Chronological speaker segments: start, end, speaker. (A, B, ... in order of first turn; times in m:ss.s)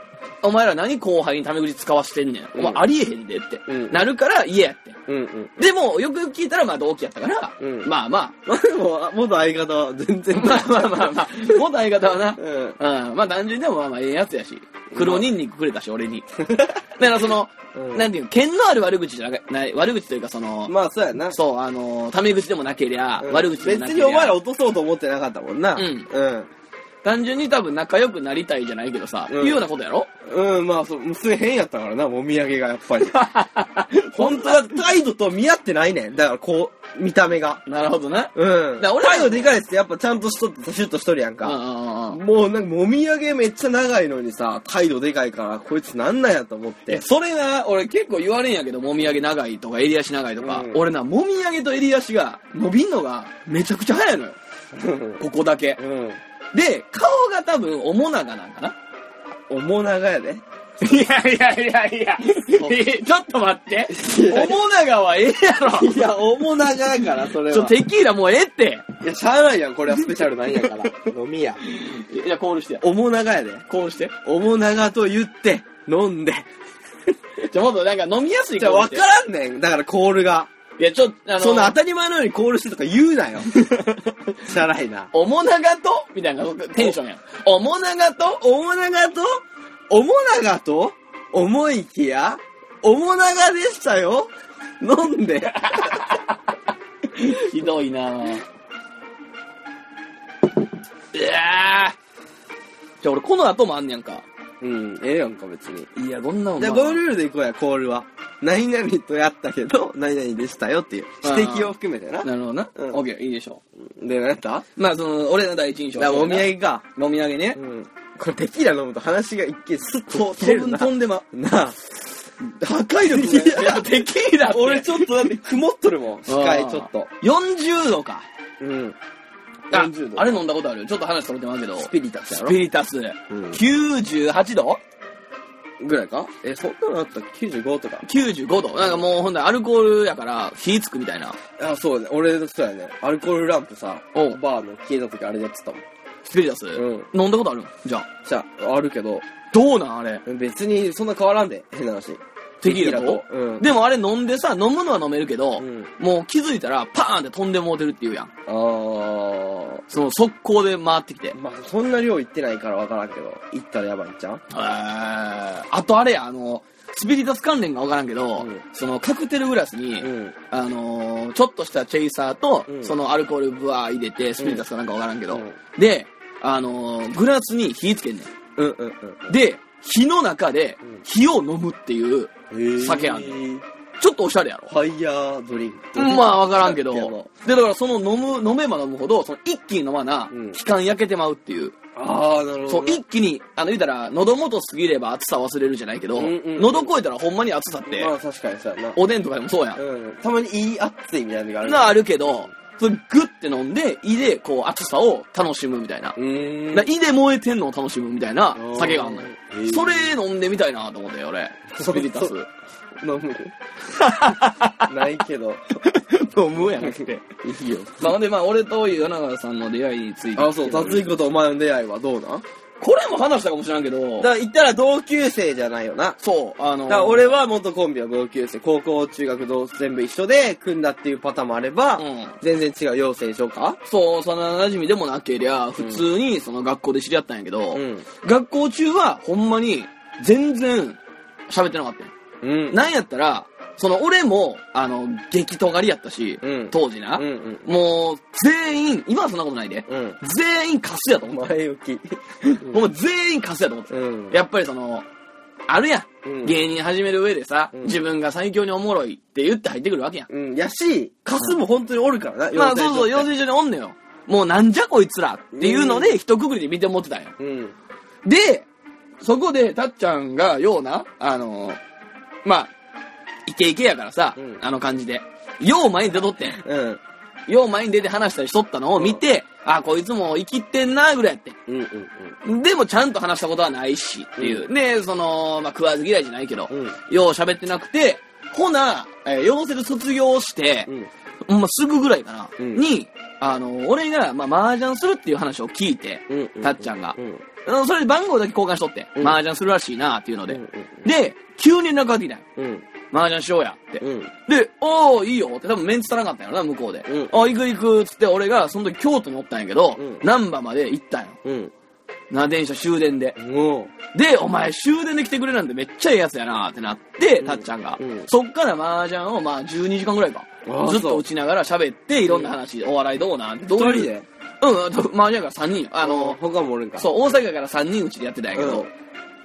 0:00.4-0:05.0 A
0:02.6-0:02.8 B
0:03.7-0:04.0 B
0:05.1-0:05.5 B
0:05.6-0:08.4 A
0:07.6-0:07.9 B
0:08.5-0:11.3 B
0:10.3-0:16.3 A
0:12.4-0:12.8 B
0:14.9-0:15.3 B
0:16.4-0:16.8 B
0:17.0-0:20.7 A
0:17.7-0:18.1 B
0:20.7-0:21.4 B
0:21.3-0:24.4 A
0:23.2-0:26.5 B
0:25.8-0:26.1 A
0:27.0-0:30.1 A
0:29.3-0:29.6 B
0:30.3-0:33.2 B
0:33.0-0:34.6 A
0:34.2-0:37.6 B
0:37.7-0:39.5 A
0:38.4-0:41.6 B
0:41.4-0:42.2 A
0:42.1-0:47.0 B
0:46.9-0:54.4 A
0:50.4-0:50.8 B
0:54.7-0:55.2 B
0:55.2-0:55.8 A
0:55.8-0:56.2 B
0:56.5-0:58.8 A
0:59.5-1:00.4 B
1:00.8-1:06.1 A
1:03.9-1:04.6 B
1:05.7-1:07.8 B
1:07.5-1:08.9 A
1:09.0-1:11.6 B
1:11.7-1:12.8 A
1:12.8-1:13.6 B
1:13.7-1:14.1 A
1:14.2-1:16.5 B
1:17.4-1:19.0 A
1:18.6-1:20.5 B
1:20.8-1:21.8 A
1:21.4-1:23.5 B
1:23.6-1:24.0 A
1:24.4-1:25.1 B
1:25.1-1:28.4 A
1:28.3-1:36.1 B
1:35.6-1:36.3 A
1:37.2-1:38.4 A
1:41.1-1:42.0 A
1:43.0-1:44.2 A
1:44.6-1:45.9 B
1:46.0-1:47.0 A
1:46.6-1:53.0 B
1:51.2-1:53.6 A
1:53.8-1:54.6 B
1:54.8-1:57.6 A
1:56.0-1:56.8 B
1:57.6-2:01.8 B
2:00.1-2:01.2 A
2:02.4-2:05.3 A
2:03.0-2:07.1 B
2:06.3-2:08.3 A
2:08.6-2:09.0 B
2:09.7-2:10.4 B
2:09.7-2:14.8 A
2:11.8-2:12.6 B
2:13.3-2:13.6 B
2:15.8-2:18.1 B
2:18.0-2:21.4 A
2:18.8-2:19.0 B
2:21.6-2:25.8 B
2:24.1-2:24.4 A
2:26.2-2:28.1 A
2:26.8-2:27.1 B
2:28.2-2:29.3 B
2:29.5-2:30.2 A
2:30.3-2:33.7 B
2:32.6-2:38.3 A
2:35.6-2:35.9 B
2:38.5-2:39.8 B
2:39.9-2:41.4 A
2:41.3-2:44.4 B
2:44.5-2:58.3 A
2:50.0-2:50.3 B
2:52.7-2:52.9 B
2:58.6-2:59.3 B
2:59.3-3:03.4 A
3:02.5-3:03.6 B
3:04.0-3:04.7 A
3:04.7-3:07.3 B
3:06.0-3:11.8 A
3:10.3-3:10.6 B
3:12.0-3:13.0 B
3:12.7-3:18.1 A
3:16.2-3:16.9 B
3:17.9-3:19.0 B
3:19.0-3:19.8 A
3:19.8-3:22.0 B
3:21.6-3:26.2 A
3:26.2-3:26.9 B
3:26.7-3:32.5 A
3:28.5-3:30.1 B
3:31.8-3:32.3 B
3:33.0-3:33.6 B
3:33.9-3:34.9 A
3:34.9-3:35.6 B
3:35.8-3:37.3 A
3:36.6-3:38.1 B
3:38.0-3:41.1 A
3:40.4-3:42.4 B
3:42.8-3:44.3 A
3:44.2-3:46.2 B
3:46.2-3:47.4 A
3:46.9-3:53.8 B
3:52.0-3:52.4 A
3:53.9-4:02.1 A
3:55.8-3:56.0 B
3:57.7-3:58.0 B
4:02.4-4:02.9 B
4:02.7-4:11.4 A
4:06.4-4:07.7 B
4:09.9-4:10.2 B
4:11.3-4:12.8 B
4:12.4-4:15.1 A
4:13.9-4:14.4 B
4:15.7-4:20.3 A
4:16.2-4:16.6 B
4:17.7-4:18.0 B
4:20.3-4:23.3 B
4:22.6-4:27.3 A
4:25.6-4:26.2 B
4:27.4-4:27.8 B
4:28.2-4:28.7 A
4:29.2-4:31.8 A
4:32.4-4:32.7 A
4:33.5-4:36.6 A
4:36.4-4:37.0 B
4:37.5-4:41.6 A
4:39.0-4:39.2 B
4:41.7-4:42.4 B
4:42.4-4:50.9 A
4:44.4-4:44.7 B
4:46.7-4:47.0 B
4:51.5-5:02.4 A
4:52.6-4:52.8 B
4:56.3-4:57.4 B
5:00.5-5:01.1 B
5:02.6-5:02.8 B
5:03.1-5:11.4 A
5:04.0-5:04.3 B
5:07.1-5:07.5 B
5:10.0-5:10.2 B
5:11.4-5:11.7 B
5:12.3-5:13.4 A
5:13.4-5:13.9 B
5:14.1-5:24.1 A
5:17.4-5:18.3 B
5:20.7-5:21.2 B
5:22.2-5:22.6 B
5:23.7-5:24.3 B
5:24.6-5:26.4 A
5:26.0-5:27.3 B
5:27.0-5:28.9 A
5:28.5-5:28.9 B